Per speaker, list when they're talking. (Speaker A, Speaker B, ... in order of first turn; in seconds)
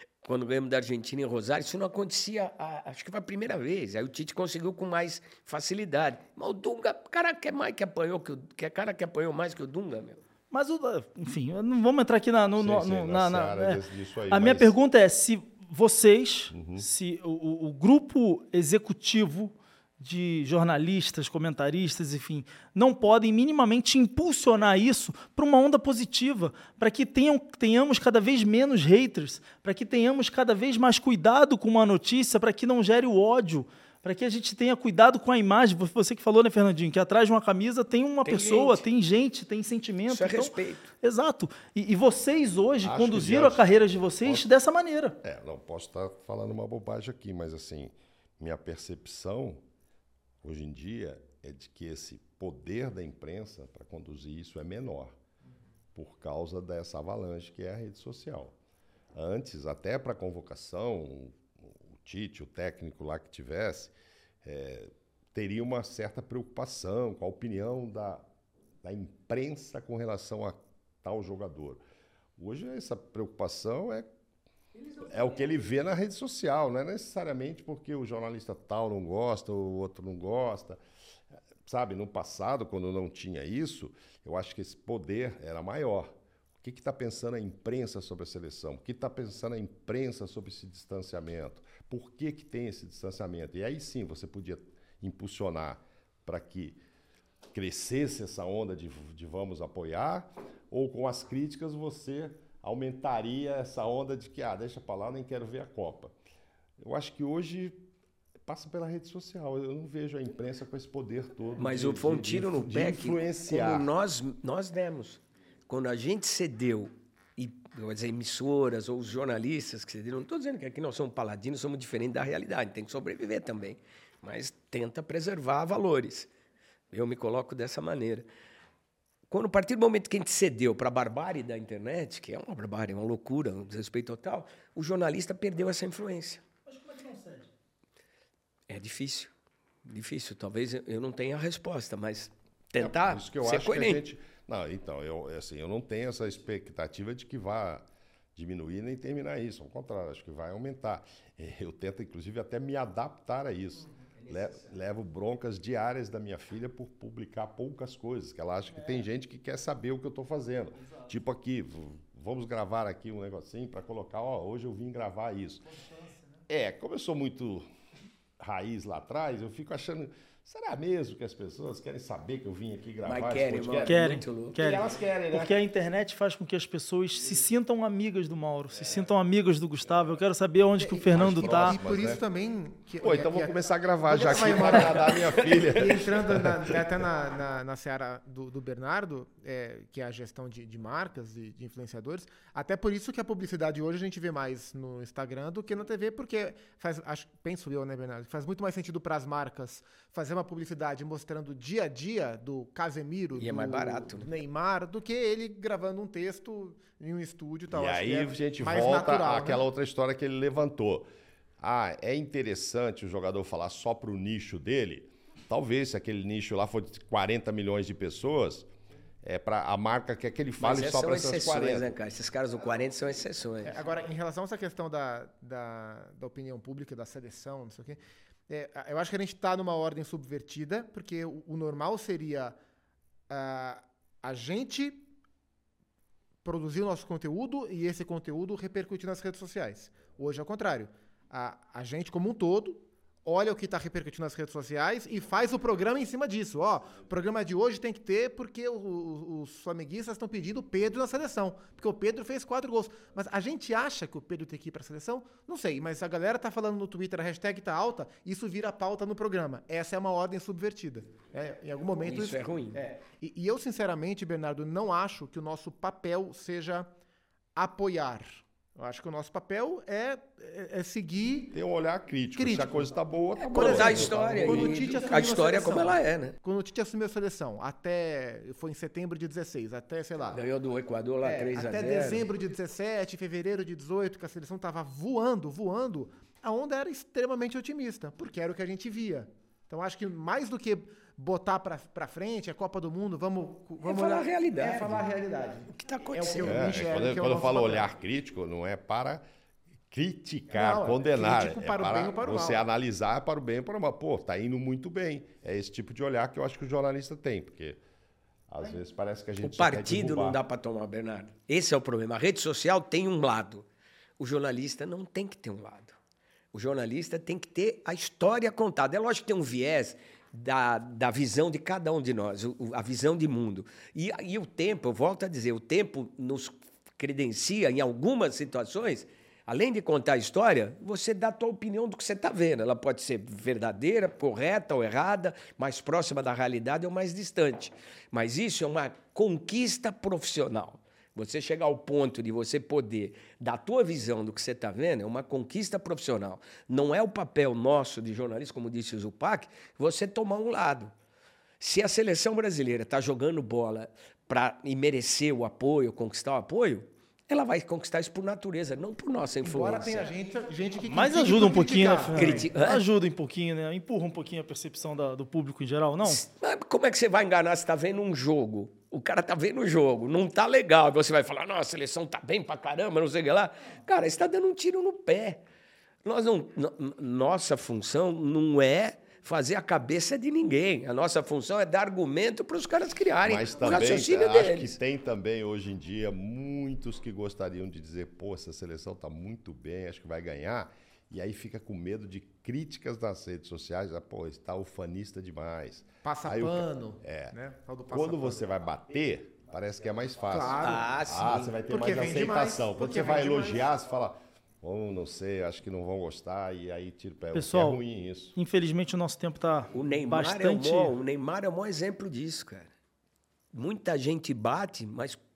Speaker A: 0.2-10.2, 38.2-38.8, 40.1-40.9, 74.8-75.5, 111.6-126.3, 126.9-128.3, 129.3-136.4, 138.7-139.3, 139.8-144.0, 173.0-174.8, 203.4-204.3, 220.6-223.8, 262.0-262.8, 273.5-276.4, 280.3-282.3, 293.8-295.1, 295.7-297.1, 309.4-313.7, 314.2-316.0, 316.5-350.9, 351.6-360.1, 362.1-362.8, 366.0-375.4, 376.0-384.8, 400.6-401.5, 409.7-412.7, 413.5-415.2
Speaker B: 10.5-45.2, 136.7-137.5, 160.8-161.2, 165.7-166.4, 173.8-181.8, 360.8-366.2, 407.4-407.8, 408.4-410.9
Speaker C: 12.6-14.8, 16.5-16.9, 42.8-44.5, 45.2-49.6, 50.4-55.2, 56.0-58.5, 59.1-68.3, 68.8-71.8, 72.4-74.1, 75.0-80.8, 81.6-96.8, 97.5-106.1, 106.8-107.8, 108.5-113.9, 142.8-147.8, 148.4-165.7, 166.5-167.7, 168.4-174.1, 174.6-175.5, 181.1-182.2, 183.0-186.9, 207.7-211.1, 211.6-218.7, 219.2-221.9, 271.5-274.8, 296.4-299.2, 299.9-307.8, 308.5-310.4, 383.2-397.4, 397.9-408.4
Speaker D: 180.8-209.6, 223.6-232.6, 233.3-235.1, 236.4-266.9, 267.6-271.6, 272.3-272.9, 273.5-280.4, 281.2-297.9, 300.5-302.6, 359.4-362.5, 396.0-398.4, 400.3-400.9, 401.7-403.7